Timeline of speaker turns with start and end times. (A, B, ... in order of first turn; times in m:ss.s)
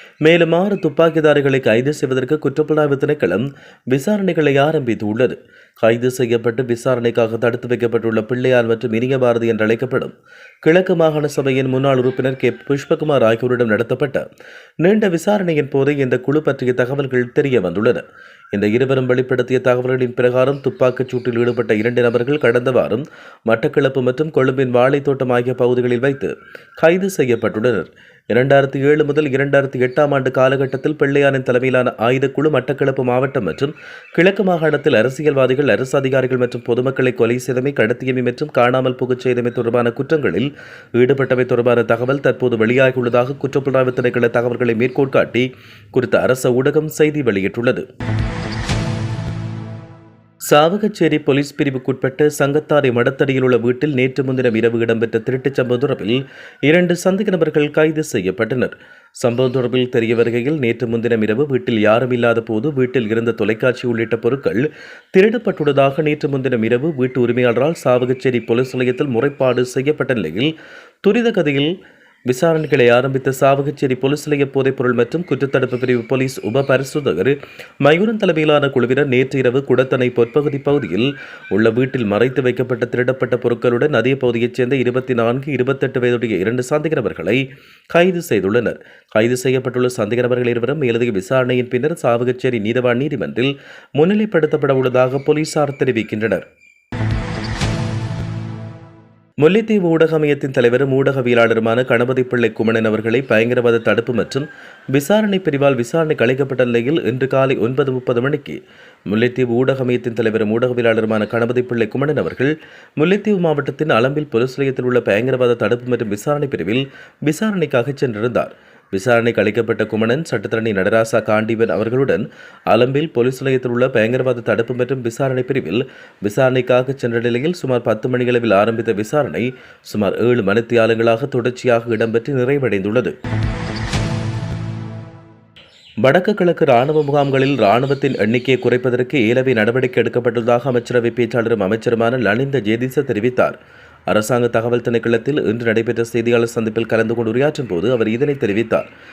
0:00.2-0:14.2 A
0:14.8-0:47.8 A
0:50.5-1:10.5 A
1:11.0-1:11.7 A
1:12.3-1:36.4 A
1:39.4-2:13.1 A
2:16.0-2:23.6 A
2:24.1-2:28.9 A